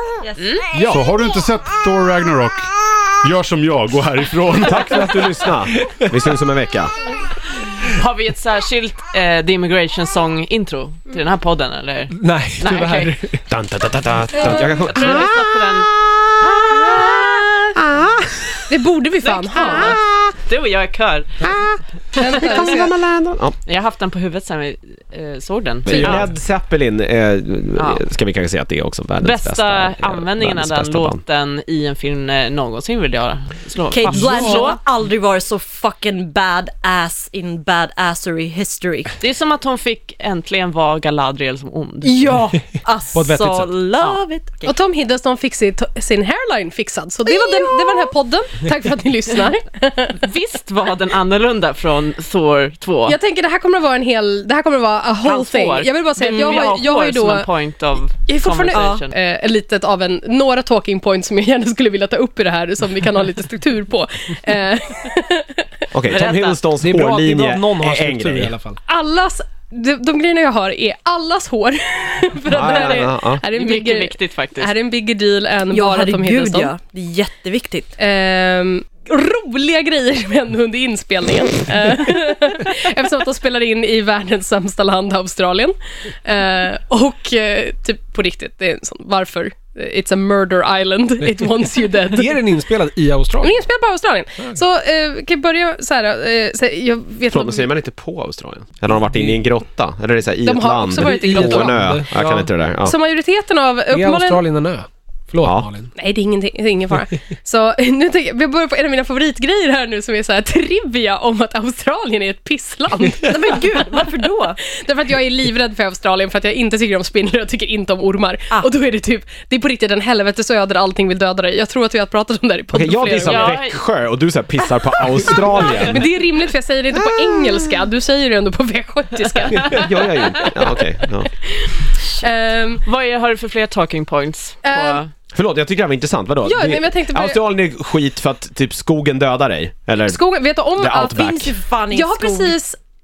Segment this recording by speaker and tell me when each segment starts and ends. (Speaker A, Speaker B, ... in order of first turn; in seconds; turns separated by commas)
Speaker A: 0.4-0.7, Speaker B: 0.7-1.0, Speaker C: 0.8-5.4, Speaker D: 4.6-6.9, Speaker B: 5.7-6.1, Speaker A: 7.8-13.2, Speaker B: 12.1-13.4, Speaker D: 13.5-18.6, Speaker A: 14.3-15.9, Speaker A: 16.4-17.3, Speaker E: 18.7-20.0, Speaker A: 19.2-21.5, Speaker D: 19.7-20.4, Speaker D: 21.4-23.6, Speaker E: 22.1-22.9, Speaker A: 23.7-26.3, Speaker D: 25.9-31.2, Speaker B: 25.9-26.3, Speaker A: 27.8-28.0, Speaker A: 29.2-34.8, Speaker F: 33.9-39.1, Speaker B: 34.1-34.6, Speaker A: 39.2-42.3, Speaker F: 42.0-44.7, Speaker B: 43.1-43.7, Speaker E: 44.7-50.2, Speaker F: 47.3-48.1, Speaker A: 50.2-53.2, Speaker E: 53.1-57.5, Speaker A: 55.2-59.1, Speaker E: 58.2-65.7, Speaker F: 58.7-59.0, Speaker D: 65.9-68.5, Speaker A: 66.1-66.6, Speaker B: 66.8-68.8, Speaker E: 68.9-76.7, Speaker D: 72.5-73.4, Speaker A: 73.5-74.7, Speaker F: 75.7-77.9, Speaker E: 78.0-92.4, Speaker B: 92.0-93.6, Speaker E: 93.4-97.7, Speaker D: 97.3-102.9, Speaker B: 99.1-99.4, Speaker E: 100.4-101.8, Speaker B: 100.9-102.5, Speaker E: 102.8-104.4, Speaker B: 103.9-105.9, Speaker E: 106.0-123.6, Speaker F: 113.2-114.6, Speaker D: 122.7-126.0, Speaker A: 123.3-123.8, Speaker E: 125.2-130.5, Speaker D: 127.0-127.8, Speaker D: 129.6-131.3, Speaker E: 131.4-132.8, Speaker A: 132.8-135.1, Speaker E: 134.7-135.0, Speaker D: 135.3-140.2, Speaker E: 136.4-137.4, Speaker E: 140.0-142.8, Speaker D: 140.8-141.5, Speaker F: 140.9-142.6